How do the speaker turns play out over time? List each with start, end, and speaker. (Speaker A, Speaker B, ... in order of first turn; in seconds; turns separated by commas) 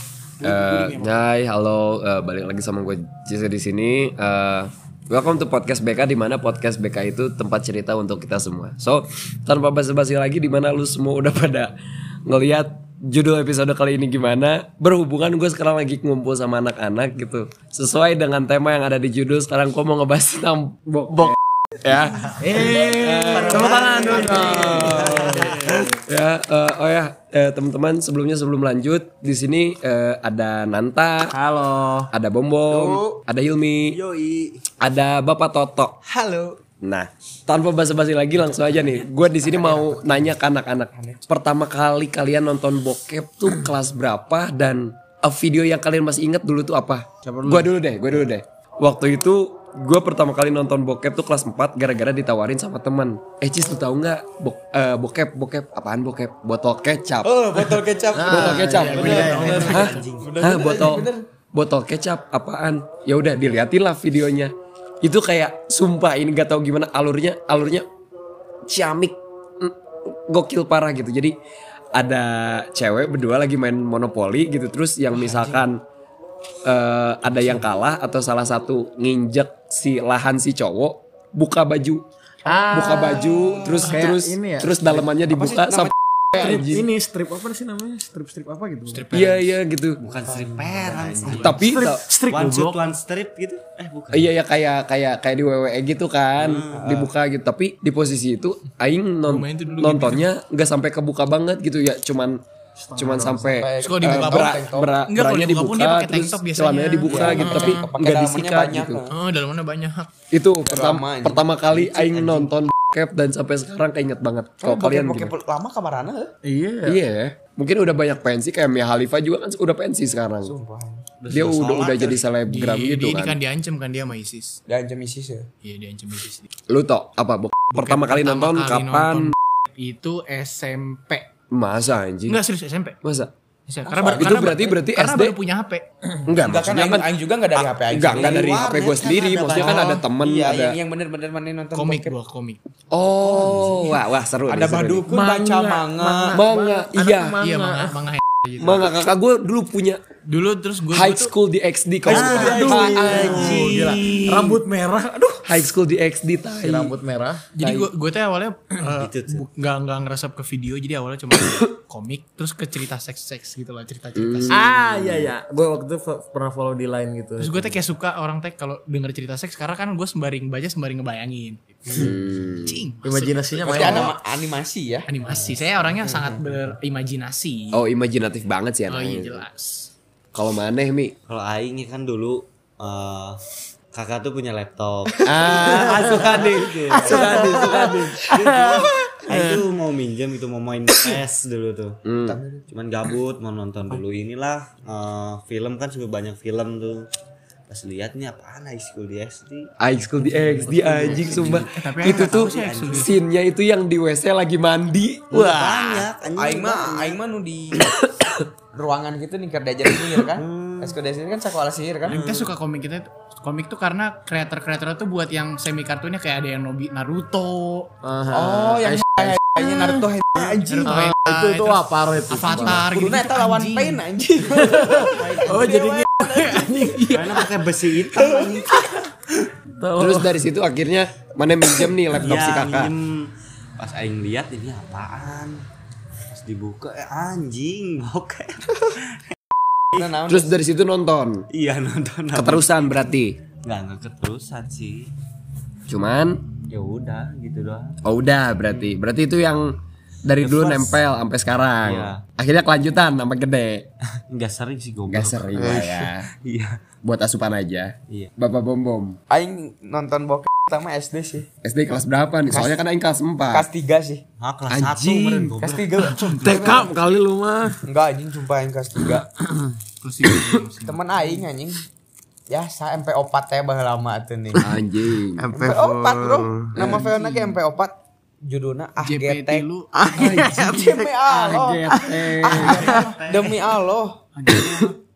Speaker A: 0.4-1.3, Speaker B: 0.4-11.7, Speaker B: 12.2-31.3, Speaker C: 22.3-25.5, Speaker D: 23.3-25.9, Speaker E: 23.6-24.7, Speaker C: 31.3-32.1, Speaker B: 32.1-34.0, Speaker E: 32.7-33.2, Speaker D: 33.9-34.6, Speaker B: 34.8-36.0, Speaker E: 36.0-36.6, Speaker B: 36.8-64.5, Speaker E: 39.2-40.4, Speaker E: 40.9-41.3, Speaker C: 47.2-47.7, Speaker E: 57.2-61.2, Speaker D: 58.0-60.3, Speaker C: 58.1-59.7, Speaker A: 58.8-60.1, Speaker B: 65.0-67.8, Speaker B: 68.7-71.3, Speaker B: 71.9-75.8, Speaker E: 75.1-75.6, Speaker B: 76.6-82.0, Speaker C: 82.5-85.1, Speaker B: 82.7-86.9, Speaker E: 85.3-86.6, Speaker C: 86.4-89.1, Speaker A: 88.9-89.5, Speaker B: 89.1-90.0, Speaker D: 90.0-91.7, Speaker E: 90.1-91.6, Speaker A: 91.3-91.5, Speaker B: 91.3-92.1, Speaker C: 91.6-92.8, Speaker D: 92.2-94.3, Speaker B: 94.1-102.4, Speaker D: 96.3-96.9, Speaker E: 96.7-97.1, Speaker A: 99.2-100.3, Speaker C: 102.8-103.5, Speaker B: 103.0-109.0, Speaker E: 103.5-105.0, Speaker A: 103.8-107.8, Speaker E: 107.1-109.1, Speaker C: 107.3-107.8, Speaker A: 109.1-110.1, Speaker B: 110.3-115.3, Speaker E: 110.7-112.5, Speaker E: 114.6-116.3, Speaker C: 116.4-117.0, Speaker B: 116.8-120.5, Speaker E: 120.4-121.0, Speaker D: 121.2-122.2, Speaker B: 121.3-123.4, Speaker A: 122.5-124.6, Speaker E: 124.7-125.5, Speaker A: 125.6-126.5, Speaker B: 126.7-129.3, Speaker A: 127.7-131.2, Speaker B: 131.5-132.4, Speaker A: 132.3-133.0, Speaker B: 133.0-133.3, Speaker A: 133.7-135.8, Speaker E: 133.8-134.6, Speaker B: 134.1-135.3, Speaker B: 136.2-140.8, Speaker E: 136.3-138.9, Speaker D: 138.0-140.0, Speaker E: 139.6-142.1, Speaker A: 141.7-142.6, Speaker B: 142.9-145.1, Speaker E: 143.2-146.4, Speaker C: 145.1-148.0, Speaker B: 146.3-147.4, Speaker A: 147.4-148.9, Speaker B: 148.6-150.0, Speaker A: 150.2-151.3, Speaker B: 150.9-152.7, Speaker D: 152.1-154.2, Speaker E: 152.1-153.8, Speaker A: 152.3-154.0, Speaker C: 152.7-155.6, Speaker B: 155.4-156.9, Speaker C: 156.6-157.4, Speaker A: 157.5-164.6, Speaker D: 158.8-159.4, Speaker B: 164.1-165.3, Speaker C: 164.5-167.7, Speaker A: 167.4-174.2, Speaker B: 171.9-172.8, Speaker C: 173.0-174.1, Speaker E: 173.7-175.1, Speaker A: 175.1-177.8, Speaker E: 175.9-176.7, Speaker B: 177.7-179.4, Speaker A: 178.9-179.9, Speaker B: 180.3-181.1, Speaker D: 181.3-183.4, Speaker D: 183.9-192.0, Speaker B: 185.2-188.3, Speaker C: 187.2-187.6, Speaker C: 188.3-189.6, Speaker B: 192.0-192.4, Speaker E: 192.2-192.7, Speaker D: 192.7-197.1, Speaker D: 197.7-203.2, Speaker B: 199.8-206.1, Speaker C: 200.5-201.6, Speaker A: 201.6-203.2, Speaker D: 205.3-207.2, Speaker E: 206.3-207.9, Speaker B: 207.8-208.5, Speaker E: 208.7-212.2, Speaker D: 210.3-211.0, Speaker A: 212.1-217.9, Speaker D: 212.1-212.5, Speaker C: 218.0-220.0, Speaker E: 218.3-221.0, Speaker A: 220.7-224.0, Speaker C: 220.8-222.9, Speaker E: 222.5-227.1, Speaker C: 224.5-225.8, Speaker A: 226.0-227.5, Speaker D: 227.1-228.8, Speaker E: 228.1-228.4, Speaker C: 229.8-230.4, Speaker B: 230.0-232.9, Speaker D: 232.1-235.6, Speaker D: 236.3-239.2, Speaker E: 239.9-240.6, Speaker B: 240.3-241.4, Speaker D: 241.5-243.1, Speaker B: 242.3-243.3, Speaker D: 243.6-245.1, Speaker B: 245.9-246.4, Speaker D: 246.7-248.0, Speaker B: 248.0-253.9, Speaker D: 250.4-251.0, Speaker D: 251.8-252.2, Speaker D: 254.3-256.7, Speaker B: 255.1-256.3, Speaker E: 255.6-256.0, Speaker B: 257.0-259.2, Speaker E: 259.3-261.5, Speaker B: 261.6-263.7, Speaker E: 262.4-262.8, Speaker E: 263.5-264.2, Speaker D: 264.4-265.9, Speaker B: 264.7-265.5, Speaker E: 265.6-266.9, Speaker A: 266.0-266.8, Speaker C: 266.4-267.8, Speaker E: 267.8-269.2, Speaker A: 270.0-271.4, Speaker E: 270.8-271.8, Speaker E: 272.5-274.6, Speaker B: 274.6-275.4, Speaker C: 274.6-277.0, Speaker E: 275.5-279.7, Speaker A: 276.8-277.6, Speaker A: 279.0-281.0, Speaker C: 279.9-283.0, Speaker B: 280.2-280.5, Speaker E: 280.4-284.2, Speaker B: 281.5-282.8, Speaker A: 282.4-283.3, Speaker D: 282.6-283.5, Speaker A: 284.3-285.0